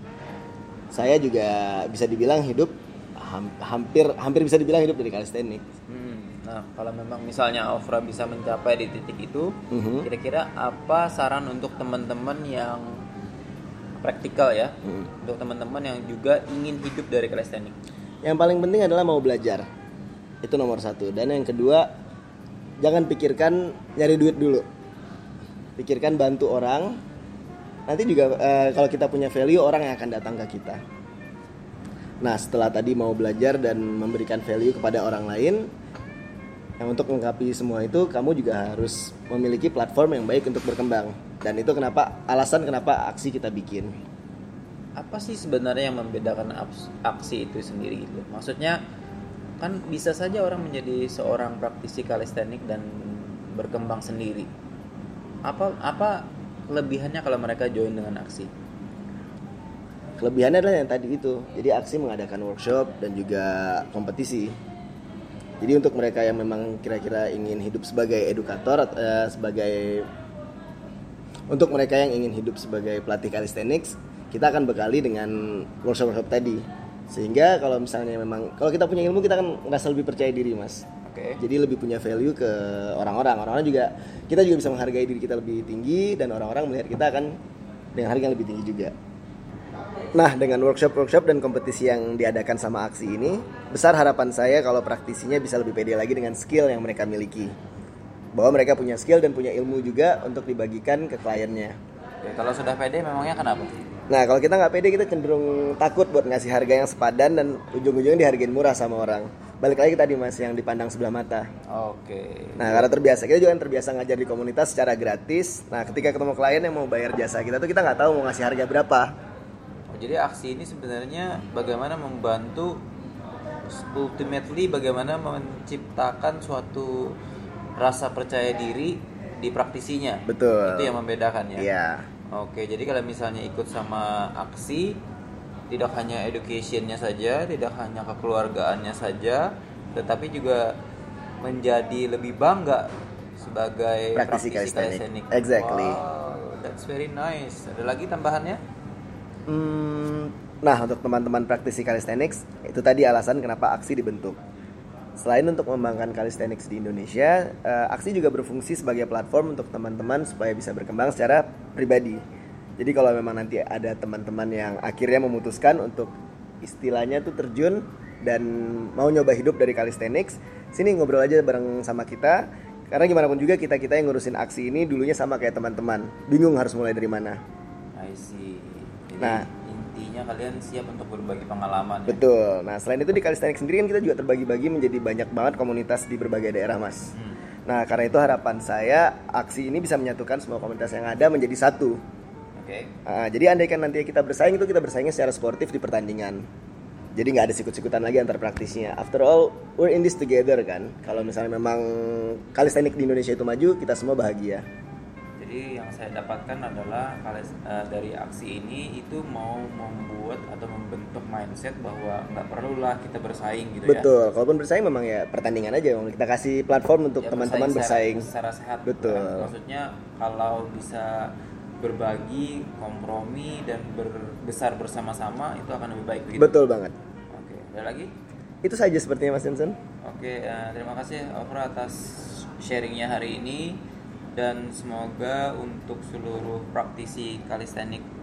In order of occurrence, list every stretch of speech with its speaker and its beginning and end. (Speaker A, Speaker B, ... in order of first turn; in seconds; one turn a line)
Speaker A: 0.9-5.6
Speaker B: 5.9-13.0
Speaker A: 9.7-10.1
Speaker B: 14.0-17.7
Speaker A: 18.2-19.6
Speaker A: 20.4-21.9
Speaker A: 22.8-24.6
Speaker A: 25.8-27.0
Speaker A: 27.9-30.8
Speaker A: 32.2-35.7
Speaker A: 36.8-43.9
Speaker B: 45.0-48.8
Speaker B: 49.6-54.5
Speaker B: 55.5-58.5
Speaker A: 60.2-64.5
Speaker A: 65.6-70.1
Speaker A: 71.5-80.8
Speaker B: 81.0-81.4
Speaker A: 81.4-87.4
Speaker A: 88.0-88.9
Speaker A: 90.1-97.5
Speaker A: 98.3-101.8
Speaker B: 102.2-103.7
Speaker A: 104.1-111.5
Speaker B: 111.7-112.9
Speaker A: 112.6-119.1
Speaker B: 119.9-122.8
Speaker B: 123.7-127.2
Speaker B: 127.8-131.7
Speaker A: 130.3-131.0
Speaker A: 131.6-132.1
Speaker B: 132.3-135.0
Speaker B: 135.7-140.7
Speaker B: 141.4-148.6
Speaker A: 144.2-146.0
Speaker A: 149.5-154.4
Speaker A: 155.2-162.2
Speaker A: 162.8-177.4
Speaker B: 177.9-182.2
Speaker A: 179.2-179.5
Speaker A: 182.1-187.1
Speaker B: 187.1-187.4
Speaker A: 187.7-192.0
Speaker B: 192.6-192.9
Speaker A: 193.1-196.4
Speaker A: 197.2-204.6
Speaker B: 205.4-214.1
Speaker A: 213.8-218.3
Speaker B: 217.2-226.6
Speaker A: 218.8-219.5
Speaker A: 226.3-226.9
Speaker B: 227.3-228.1
Speaker A: 228.6-229.8
Speaker B: 230.0-233.8
Speaker B: 234.3-238.1